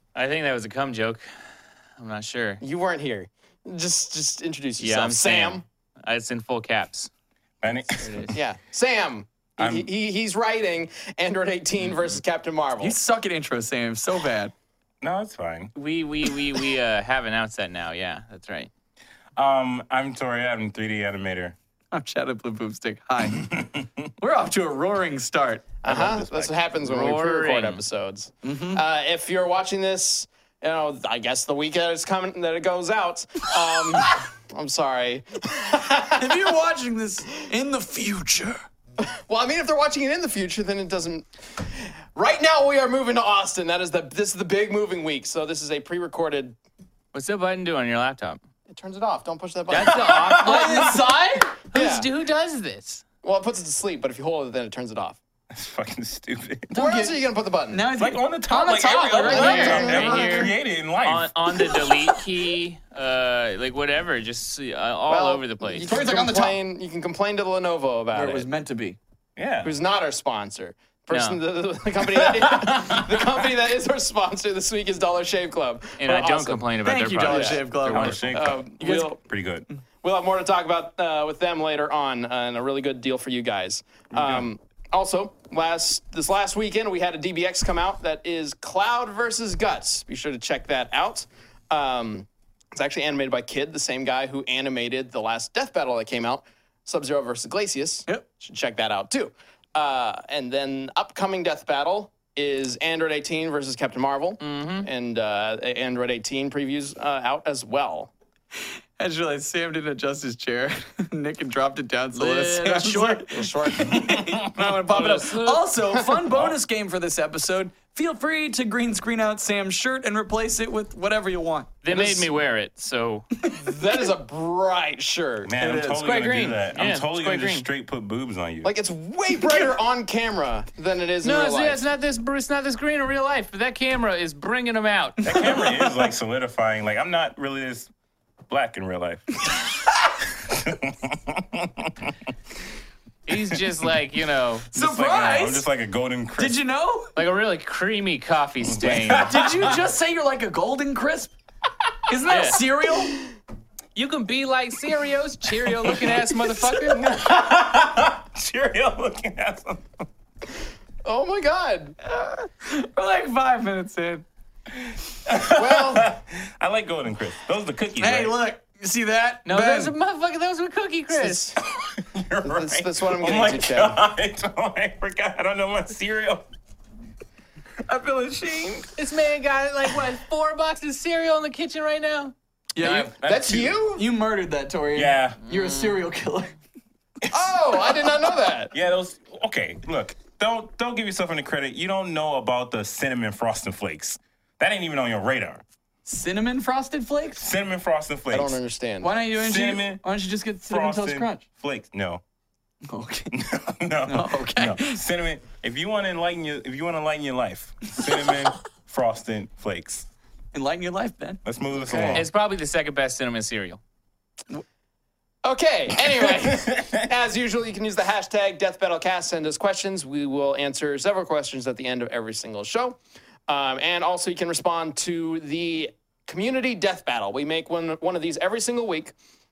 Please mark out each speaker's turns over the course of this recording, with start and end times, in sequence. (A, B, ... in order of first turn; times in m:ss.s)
0:00.2-0:01.3 A
0:02.0-0:02.6 A
0:02.6-0:05.6 B
0:04.8-0:07.1 A
0:07.6-0:08.3 C
0:07.9-0:08.3 A
0:08.3-0:13.0 B
0:09.6-0:09.9 C
0:12.8-0:14.5 D
0:15.0-0:15.7 C
0:15.8-0:18.7 A
0:19.4-0:21.6 C
0:21.9-0:23.5 D
0:23.3-0:24.1 C
0:24.2-0:25.7 D
0:25.8-0:36.6 B
0:25.9-0:26.6 C
0:26.8-0:27.8 A
0:28.4-0:28.8 D
0:36.2-0:38.6 D
0:39.0-0:46.6 B
0:47.1-0:48.4 A
0:48.7-0:51.0 B
0:49.7-0:53.0 A
0:49.8-0:51.0 C
0:51.7-0:52.1 B
0:53.2-0:55.2 B
0:55.5-0:56.8 C
0:56.7-1:00.5 D
0:56.8-0:57.8 B
0:57.9-1:01.3 C
0:58.9-1:00.4 B
0:59.3-1:05.9 A
1:05.1-1:08.5 B
1:05.8-1:06.6 D
1:08.1-1:09.0 D
1:09.4-1:09.7 C
1:09.6-1:16.6 B
1:11.1-1:11.4 A
1:12.2-1:13.2 C
1:16.0-1:18.3 A
1:16.8-1:19.1 D
1:17.3-1:17.7 B
1:17.8-1:19.7 C
1:18.3-1:19.2 B
1:20.0-1:48.1 B
1:24.1-1:24.5 C
1:44.4-1:44.9 A
1:49.0-2:02.2 D
1:52.2-1:53.2 A
1:53.1-1:54.2 B
1:53.9-1:54.8 C
1:54.9-1:55.6 A
1:56.3-1:56.6 C
2:01.8-2:03.3 A
2:03.4-2:04.1 D
2:03.5-2:05.5 B
2:05.4-2:08.7 C
2:05.6-2:06.2 D
2:05.9-2:07.7 A
2:08.6-2:11.8 B
2:09.4-2:09.7 D
2:11.2-2:15.2 A
2:15.2-2:16.1 D
2:15.2-2:17.9 C
2:18.5-2:19.5 C
2:20.4-2:22.1 C
2:23.3-2:24.7 A
2:24.7-2:25.7 D
2:24.8-2:26.6 C
2:26.4-2:27.2 D
2:27.2-2:29.4 A
2:28.6-2:29.8 C
2:29.1-2:31.3 D
2:32.1-2:33.2 D
2:32.3-2:32.6 A
2:34.0-2:37.1 A
2:35.8-2:40.0 C
2:41.0-2:42.0 B
2:42.0-2:44.2 D
2:44.8-2:48.4 C
2:45.5-2:46.1 B
2:48.0-2:49.9 D
2:49.5-2:51.5 A
2:51.1-2:51.6 B
2:51.6-2:56.4 C
2:52.4-2:54.0 B
2:57.9-2:58.9 C
2:59.0-3:02.4 A
3:02.8-3:03.1 D
3:02.8-3:03.8 C
3:03.2-3:04.1 B
3:04.0-3:06.6 D
3:05.0-3:05.4 C
3:05.5-3:06.0 A
3:07.2-3:08.1 C
3:07.3-3:08.7 B
3:08.7-3:15.6 C
3:16.0-3:17.4 D
3:17.4-3:18.6 C
3:18.3-3:19.1 B
3:19.0-3:21.4 D
3:19.4-3:20.0 C
3:20.7-3:22.2 C
3:22.9-3:23.4 D
3:23.3-3:30.1 C
3:24.1-3:25.0 D
3:28.1-3:28.3 D
3:30.5-3:32.2 D
3:31.4-3:32.3 C
3:32.1-3:33.8 A
3:35.4-3:49.2 B
3:36.4-3:37.0 C